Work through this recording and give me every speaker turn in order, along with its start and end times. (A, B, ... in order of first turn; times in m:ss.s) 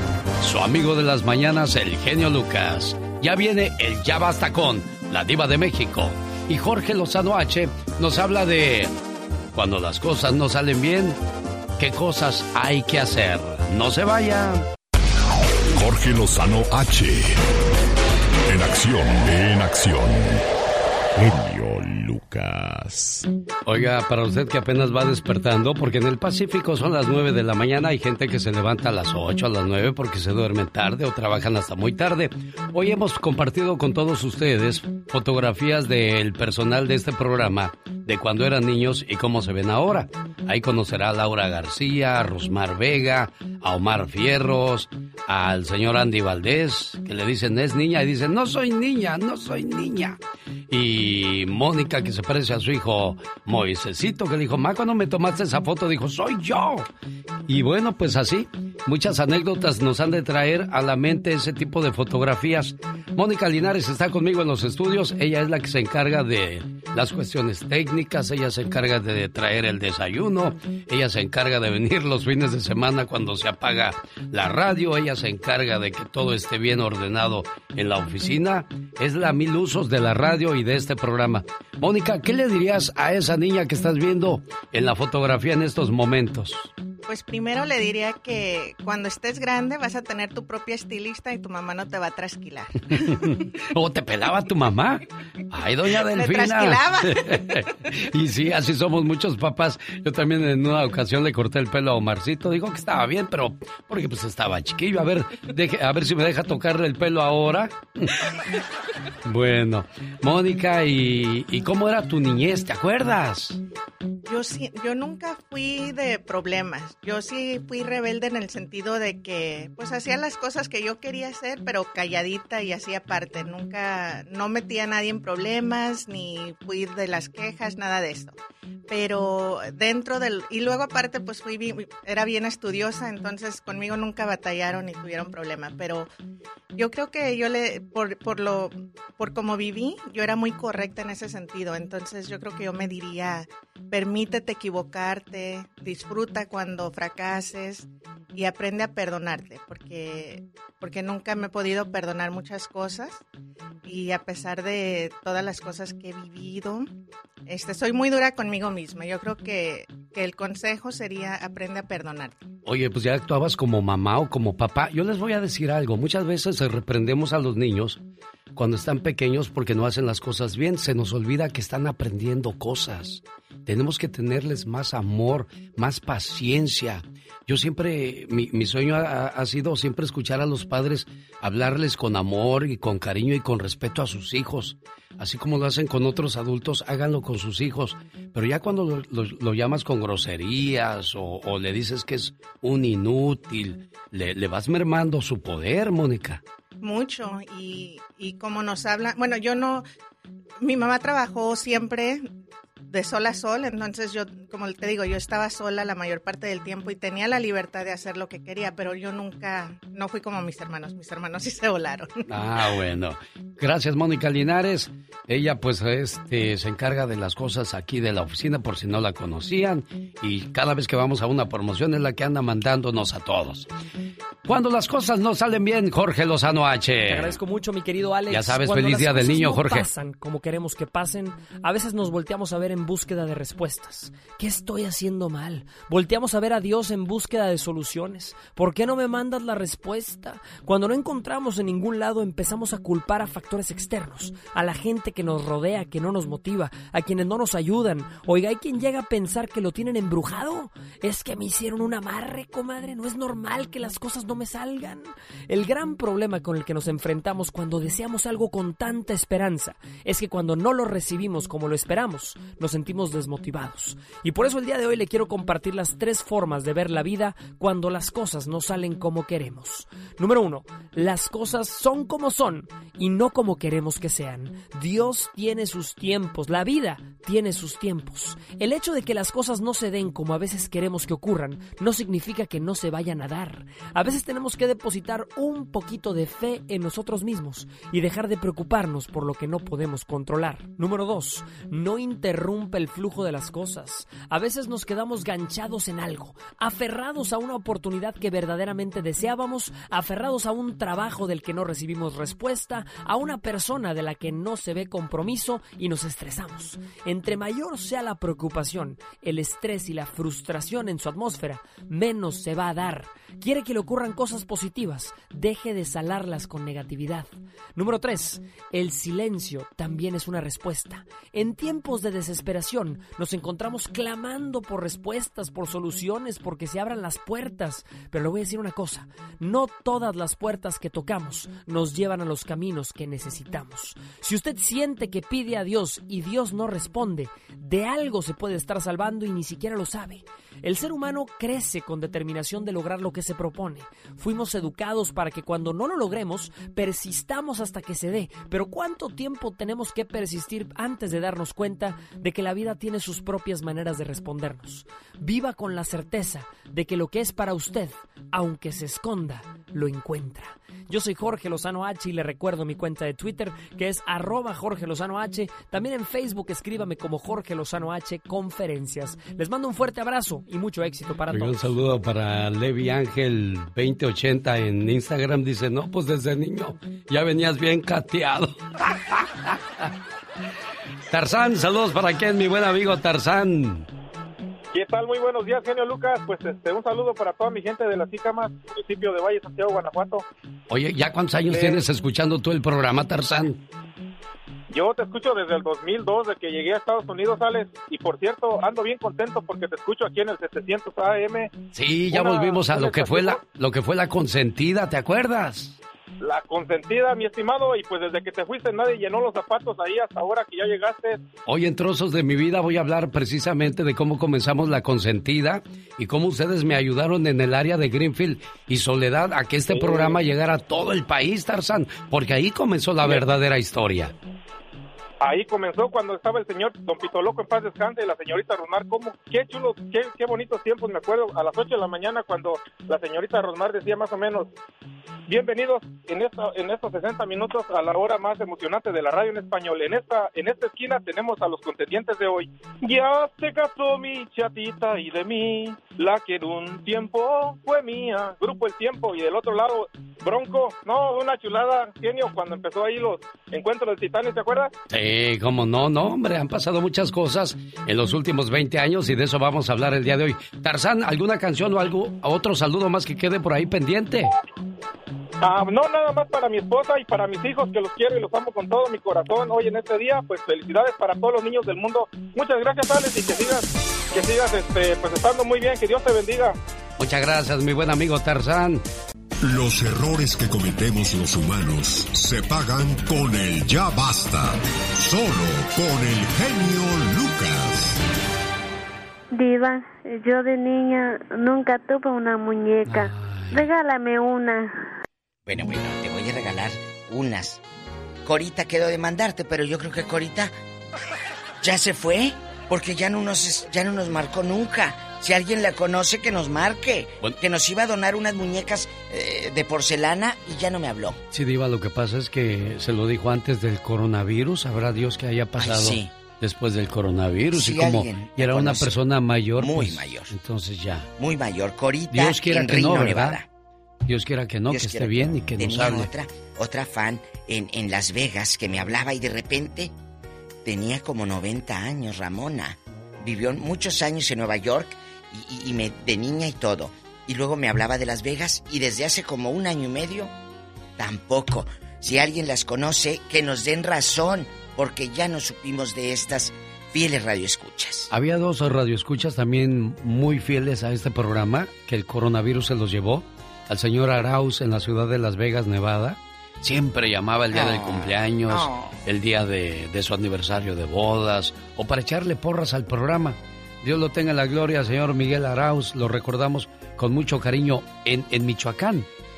0:00.4-0:08.9 A
0:09.5-0:11.2 A
0:11.8-0:14.6 A
0:15.7-0:17.4 B
0:18.5-0:20.4 B
0:21.2-0:23.3 B
0:23.6-0:56.8 A
0:57.5-1:26.7 A
1:27.0-1:33.2 C
1:33.0-1:48.2 A
1:35.9-1:37.2 C
1:49.2-1:53.6 A
1:54.2-2:08.4 C
2:08.9-2:16.1 C
2:16.7-2:33.2 C
2:33.8-2:36.9 C
2:37.4-2:42.4 C
2:42.6-2:48.0 A
2:48.5-3:16.4 A
3:16.8-3:19.9 C
3:20.6-3:22.3 C
3:22.8-3:32.2 C
3:32.3-3:43.7 A
3:44.4-3:47.4 A
3:47.1-6:11.8 D
3:48.3-3:49.9 A
6:11.3-6:19.9 A
6:21.1-6:23.9 A
6:24.7-6:30.2 E
6:30.7-6:33.6 A
6:31.5-6:31.8 E
6:33.2-6:33.5 E
6:34.7-6:41.5 E
6:41.7-6:45.8 A
6:42.1-6:43.4 E
6:46.2-6:51.2 E
6:51.4-7:04.1 A
6:59.7-7:00.2 E
7:05.2-7:14.5 E
7:15.3-7:34.7 E
7:34.9-7:44.3 A
7:45.4-7:56.6 E
7:57.0-7:58.8 A
7:59.4-8:08.0 B
8:09.3-8:14.7 F
8:12.8-8:13.7 A
8:15.4-8:17.6 G
8:18.2-8:20.5 G
8:21.6-8:31.2 G
8:31.3-8:41.1 A
8:35.6-8:36.1 G
8:37.5-8:39.0 G
8:39.6-8:40.3 G
8:41.2-8:43.4 G
8:42.1-8:43.4 A
8:44.0-8:46.1 A
8:44.7-8:49.9 G
8:50.6-9:00.3 G
9:01.0-9:08.1 G
9:08.1-9:29.1 A
9:17.5-9:19.0 G